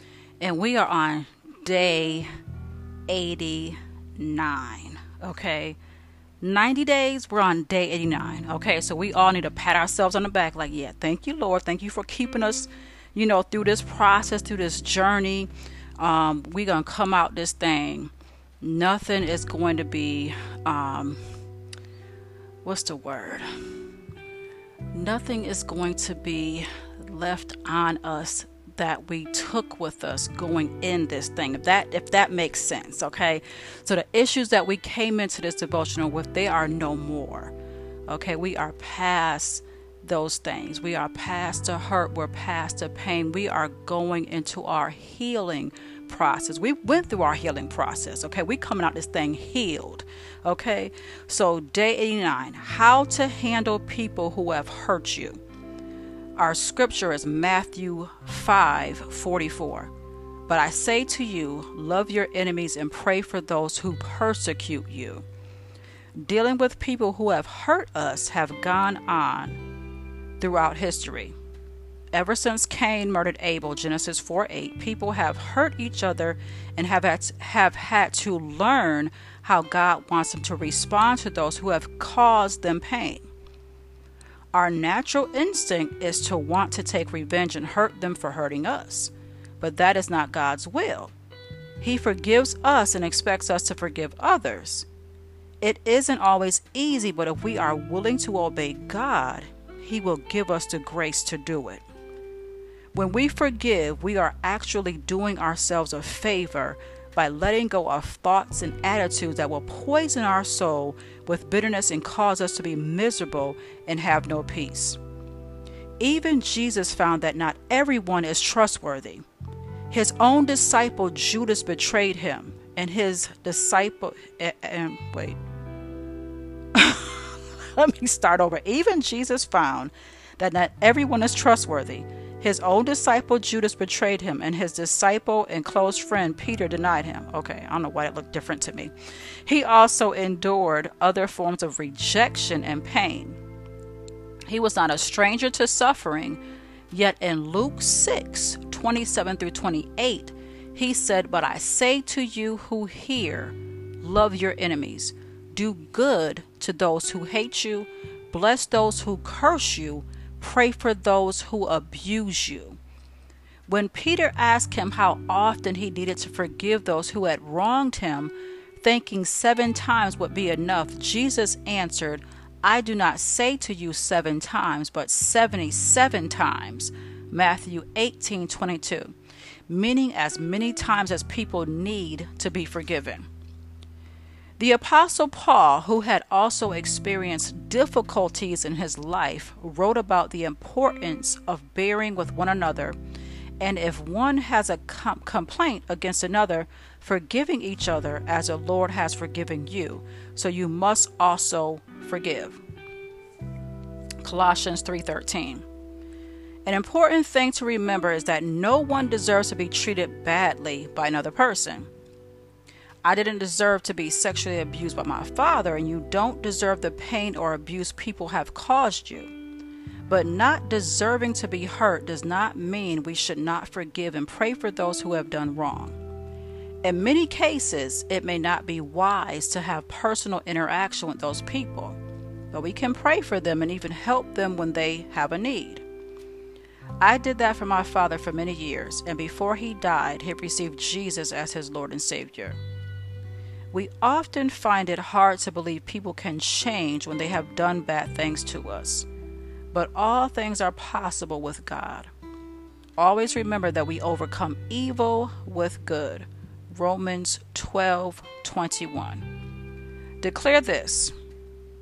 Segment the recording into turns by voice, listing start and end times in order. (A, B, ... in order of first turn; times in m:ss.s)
0:00.4-0:02.3 A
0:03.1-0:05.8 A
0:06.4-0:21.2 A
0:22.6-0:23.7 A
0:24.9-0:37.5 A
0:38.1-0:55.4 A
0:56.4-0:59.9 A
1:00.5-1:05.2 A
1:06.2-1:09.6 A
1:10.4-1:11.4 A
1:12.1-1:23.3 A
1:24.5-1:31.1 A
1:31.8-1:34.9 A
1:35.6-1:41.8 A
1:42.9-1:55.0 A
1:56.0-1:59.3 A
1:59.9-2:05.4 A
2:06.7-2:23.4 A
2:24.5-2:42.8 A
2:43.7-2:59.1 A
2:59.7-3:03.3 A
3:04.6-3:13.0 A
3:13.6-3:22.6 A
3:24.2-3:25.6 A
3:26.6-3:31.9 A
3:33.0-3:39.3 A
3:40.1-3:46.0 A
3:46.8-3:52.0 A
3:52.5-3:55.8 A
3:57.0-4:02.6 A
4:03.7-4:09.1 A
4:09.7-4:12.1 A
4:13.0-4:19.3 A
4:20.2-4:21.2 A